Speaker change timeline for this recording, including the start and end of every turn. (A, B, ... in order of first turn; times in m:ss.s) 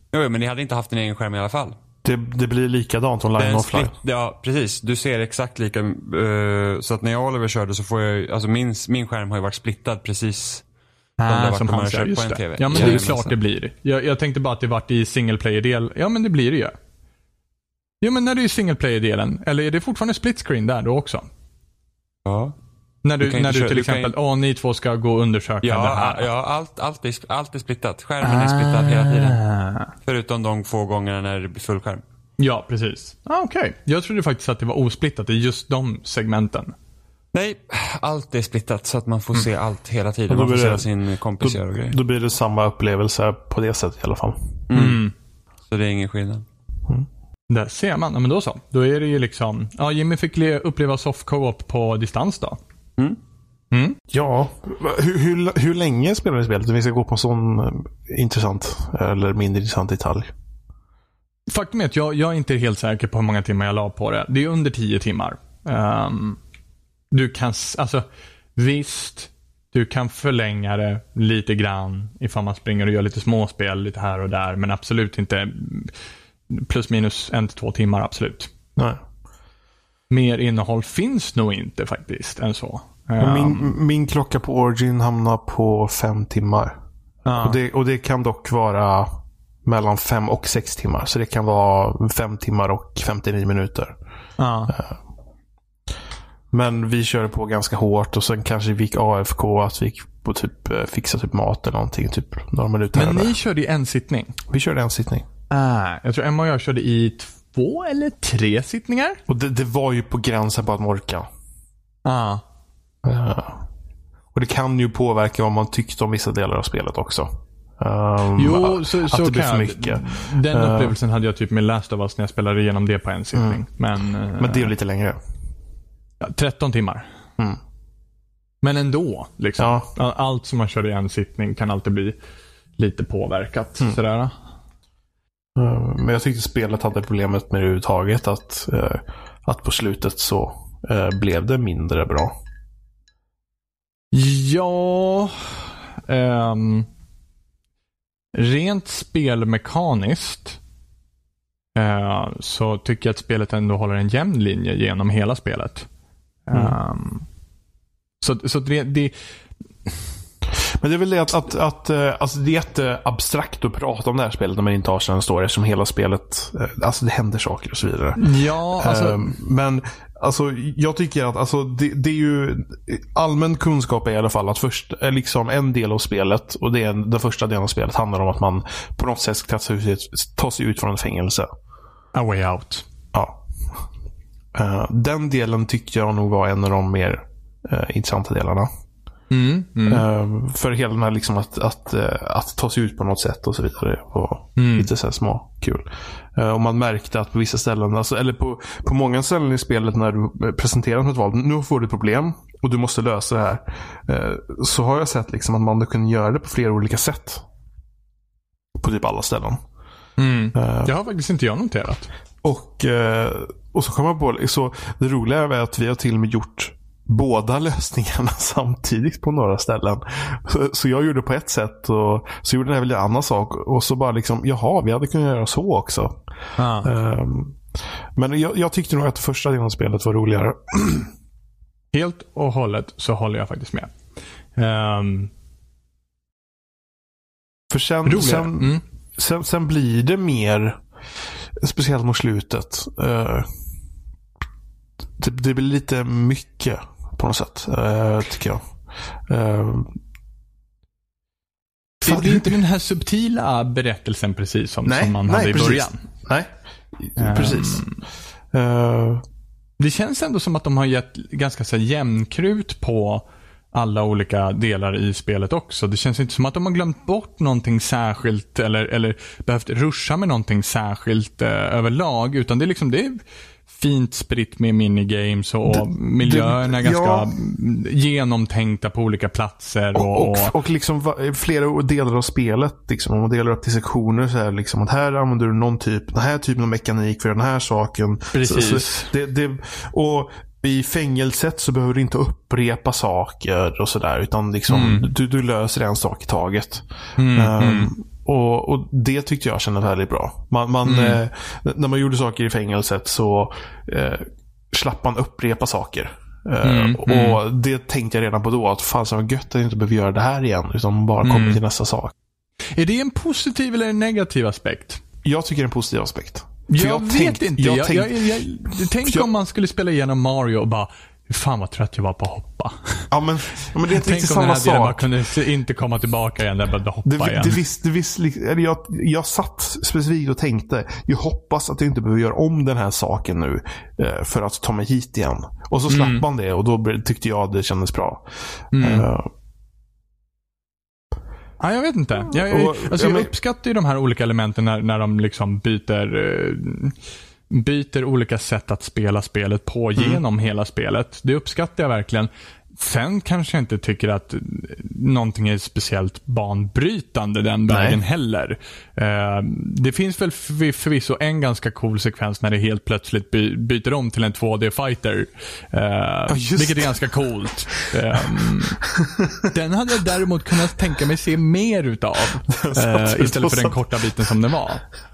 0:00.1-0:01.8 A
0:02.0-0:03.9 B
0:03.4-0:10.6 A
0:11.2-0:16.8 C
0:11.3-0:13.3 A
0:12.7-0:13.0 B
0:18.0-0:21.3 C
0:22.2-0:22.6 A
0:23.0-0:26.3 C
0:23.2-0:24.1 A
0:25.6-0:29.4 A
0:28.2-0:29.9 C
0:30.0-0:32.0 A
0:32.4-0:36.8 C
0:37.3-0:42.0 A
0:40.3-0:40.9 B
0:41.4-0:44.6 B
0:44.7-0:45.1 A
0:44.7-0:45.1 C
0:45.7-0:46.4 A
0:47.5-0:52.6 C
0:53.7-0:54.0 C
0:54.1-1:00.3 B
1:01.5-1:06.4 C
1:07.1-1:15.9 C
1:16.5-1:18.5 C
1:20.1-1:23.7 C
1:23.2-1:26.8 B
1:27.3-1:27.6 C
1:27.4-1:34.0 B
1:34.4-1:34.7 C
1:34.7-1:35.0 B
1:36.5-1:43.3 B
1:42.9-1:44.4 C
1:44.5-1:45.3 B
1:45.5-1:49.2 C
1:49.3-1:51.3 B
1:52.0-1:52.4 C
1:53.0-1:53.6 B
1:54.3-2:01.0 B
1:58.4-2:04.7 C
2:03.3-2:03.6 B
2:04.4-2:05.2 B
2:06.2-2:07.1 C
2:08.6-2:12.2 C
2:09.6-2:09.9 B
2:12.8-2:14.3 C
2:15.6-2:22.4 B
2:24.1-2:26.9 C
2:28.4-2:30.6 C
2:31.8-2:35.9 C
2:36.5-2:37.3 C
2:38.2-2:39.1 C
2:40.7-3:01.5 B
2:48.2-2:49.2 C
3:02.1-3:02.9 C
3:03.1-3:03.9 B
3:04.5-3:08.7 B
3:09.3-3:10.0 C
3:09.9-3:27.4 B
3:14.6-3:14.9 C
3:28.8-3:29.6 B
3:30.2-3:32.1 C
3:30.6-3:30.9 B
3:32.4-3:46.2 B
3:46.6-3:46.9 C
3:46.8-3:47.6 B
3:48.2-3:51.1 B
3:51.9-3:53.9 C
3:54.6-3:55.3 C
3:57.7-4:00.8 B
3:58.0-3:58.8 C
4:01.6-4:03.5 B
4:05.2-4:08.8 B
4:09.3-4:10.0 B
4:12.0-4:16.0 C
4:12.0-4:12.6 B
4:14.9-4:17.9 B
4:17.2-4:18.0 C
4:18.5-4:19.2 B
4:19.8-4:40.5 C
4:35.7-4:37.3 B
4:39.9-5:12.1 B
4:48.3-4:49.1 C
4:54.7-4:55.0 C
4:57.2-4:57.9 C
5:00.8-5:01.2 C
5:06.6-5:07.4 C
5:11.2-5:11.6 C
5:12.8-5:15.0 C
5:15.2-5:19.3 B
5:16.7-5:23.1 C
5:23.1-5:25.1 B
5:23.9-5:27.6 C
5:27.0-5:39.3 B
5:35.9-5:36.2 C
5:38.7-5:39.1 C
5:41.6-5:47.0 C
5:42.3-5:43.3 B
5:47.5-6:08.8 C
5:50.0-5:50.2 B
5:57.7-5:58.0 B
6:06.3-6:07.0 B
6:08.9-6:09.4 B
6:09.4-6:14.8 C
6:12.5-6:13.9 B